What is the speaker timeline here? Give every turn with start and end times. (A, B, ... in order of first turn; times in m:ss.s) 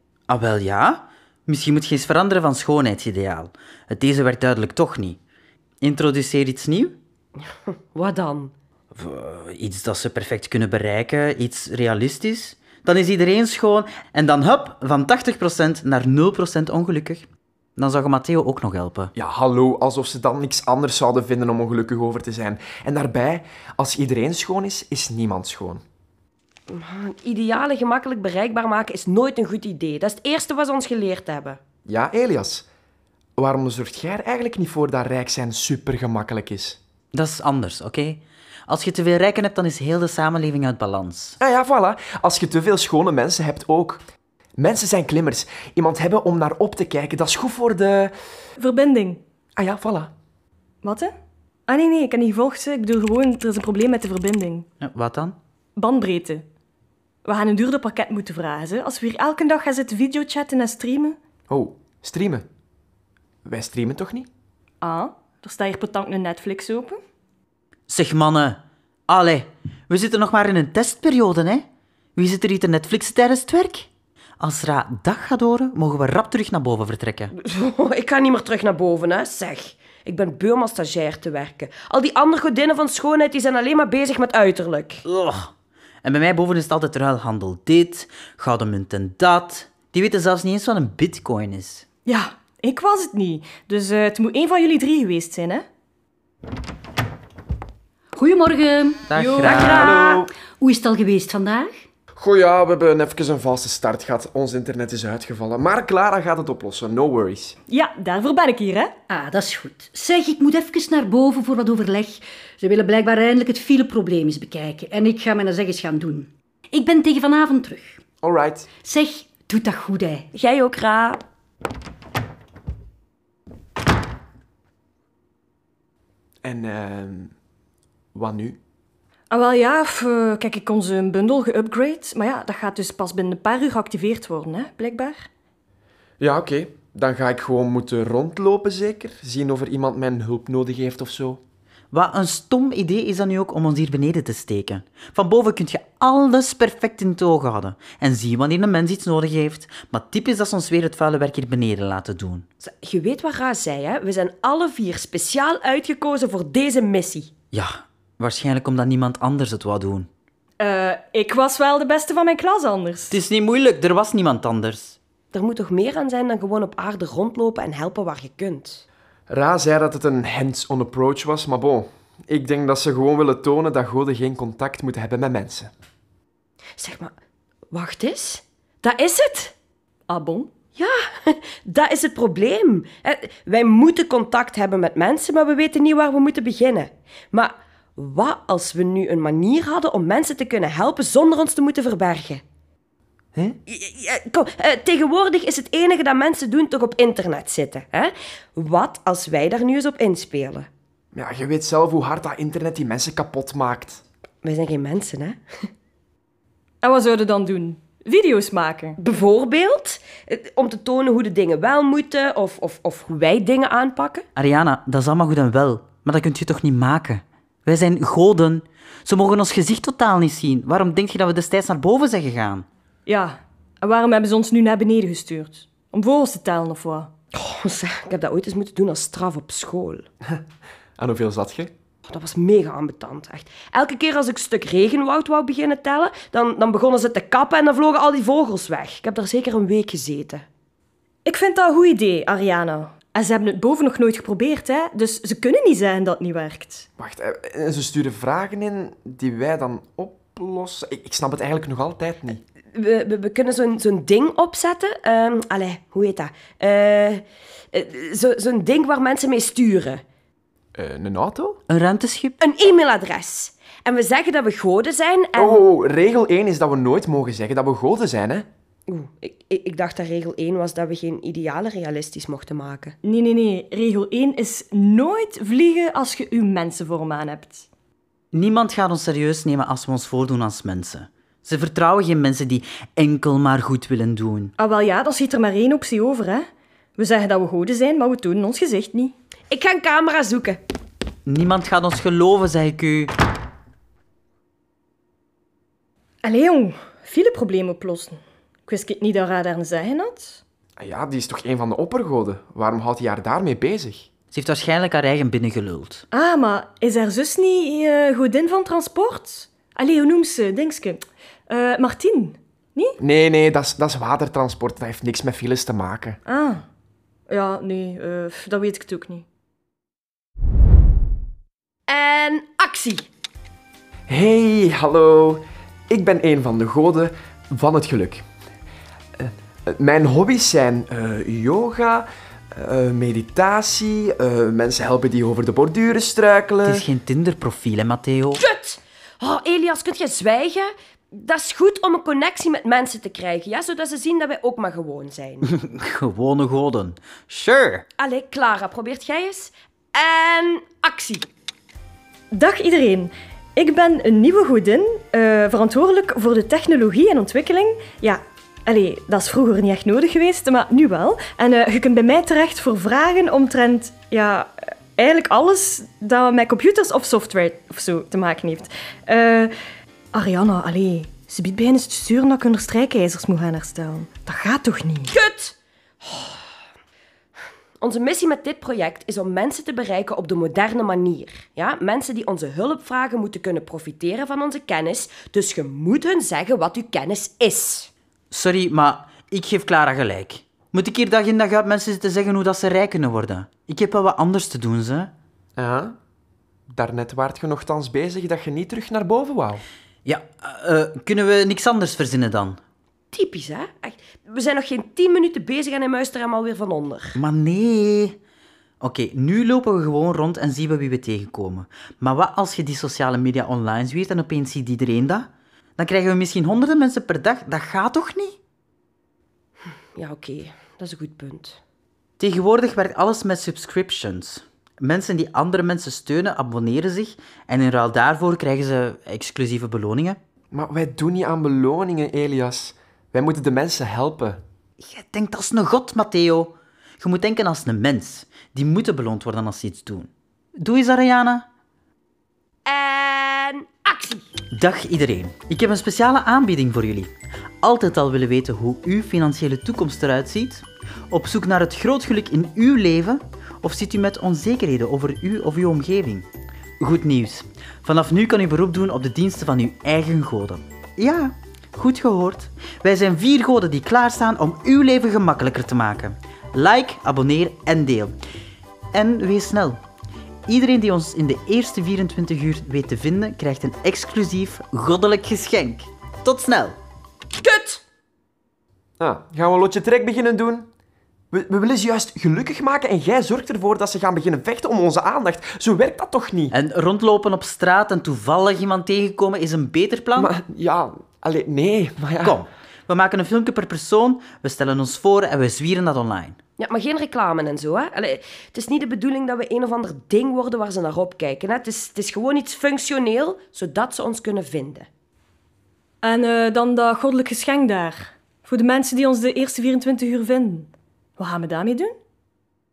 0:00.3-0:05.2 A
0:05.8-0:07.0 A
0:07.9-0:08.5 B
0:08.9-0:17.3 A
0:17.8-0:19.1 A
0:19.2-0:25.8 C
0:26.7-0:31.6 B
0:31.9-0:32.7 C
0:33.4-0:36.8 C
0:37.1-0:41.4 A
0:41.4-0:44.0 C
0:44.6-0:48.1 C
0:48.6-0:49.2 D
0:49.6-0:50.1 C
0:50.8-0:51.1 D
0:51.7-0:54.7 D
0:54.8-0:55.4 A
0:55.8-0:56.4 D
0:57.2-1:01.2 D
1:01.5-1:02.5 C
1:03.5-1:04.3 C
1:04.8-1:07.0 D
1:07.9-1:17.3 A
1:17.4-1:25.0 B
1:25.0-1:25.5 A
1:26.0-1:31.9 A
1:32.1-1:35.6 D
1:38.1-1:41.8 E
1:39.1-1:39.9 A
1:39.5-1:40.3 B
1:39.6-1:40.2 C
1:42.2-1:47.6 C
1:47.7-1:48.9 D
1:49.1-1:58.0 E
1:58.2-1:58.7 C
1:58.8-2:00.3 E
2:00.3-2:01.2 B
2:06.4-2:07.3 C
2:08.2-2:08.6 C
2:09.3-2:15.3 D
2:16.2-2:21.4 C
2:21.9-2:32.5 A
2:32.6-2:37.3 B
2:37.5-2:40.1 A
2:40.6-2:43.1 D
2:43.1-2:45.0 A
2:45.3-2:48.8 B
2:49.3-2:55.7 C
2:56.8-2:57.1 B
2:57.7-2:59.5 B
3:00.1-3:00.5 D
3:00.8-3:12.4 B
3:13.7-3:20.7 B
3:21.1-3:24.0 C
3:24.4-3:25.4 B
3:26.8-3:29.0 D
3:29.0-3:34.2 B
3:34.4-3:42.7 A
3:43.1-3:47.1 D
3:47.3-3:50.1 B
3:51.0-3:51.7 C
3:52.1-4:00.4 B
4:01.2-4:06.9 D
4:07.0-4:12.4 C
4:12.8-4:20.0 B
4:20.8-4:21.6 C
4:21.7-4:22.4 A
4:22.4-4:25.6 B
4:25.4-4:28.5 C
4:28.9-4:33.0 B
4:33.0-4:37.7 D
4:38.3-4:44.5 A
4:44.6-4:46.4 D
4:47.0-4:49.1 D
4:49.5-4:50.6 B
4:51.3-4:53.1 A
4:56.2-5:00.4 D
5:00.8-5:04.1 C
5:04.3-5:06.0 A
5:06.1-5:13.0 D
5:13.0-5:16.2 C
5:16.3-5:16.6 D
5:17.3-5:19.2 D
5:21.9-5:23.0 B
5:24.1-5:28.2 C
5:29.2-5:36.9 C
5:36.6-5:38.4 A
5:38.4-5:45.4 B
5:45.4-5:47.8 A
5:48.0-5:51.3 B
5:52.3-6:09.5 D
6:10.1-6:15.1 D
6:15.1-6:16.4 B
6:17.8-6:27.9 B
6:28.3-6:35.1 A
6:35.6-6:36.0 C
6:36.7-6:39.6 C
6:40.0-6:42.6 A
6:43.1-6:47.2 B
6:47.2-6:48.2 A
6:48.8-6:58.4 A
7:00.0-7:01.6 B
7:02.2-7:10.2 A
7:10.5-7:14.4 C
7:14.8-7:21.5 A
7:22.7-7:24.2 B
7:24.5-7:36.3 A
7:36.8-7:48.2 A
7:48.9-7:49.8 A
7:50.5-7:56.8 A
7:57.4-7:57.8 B
7:59.0-8:00.7 C
8:01.3-8:06.5 C
8:06.5-8:10.3 A
8:10.2-8:12.5 C
8:12.2-8:16.4 A
8:16.6-8:24.9 B
8:26.0-8:31.9 D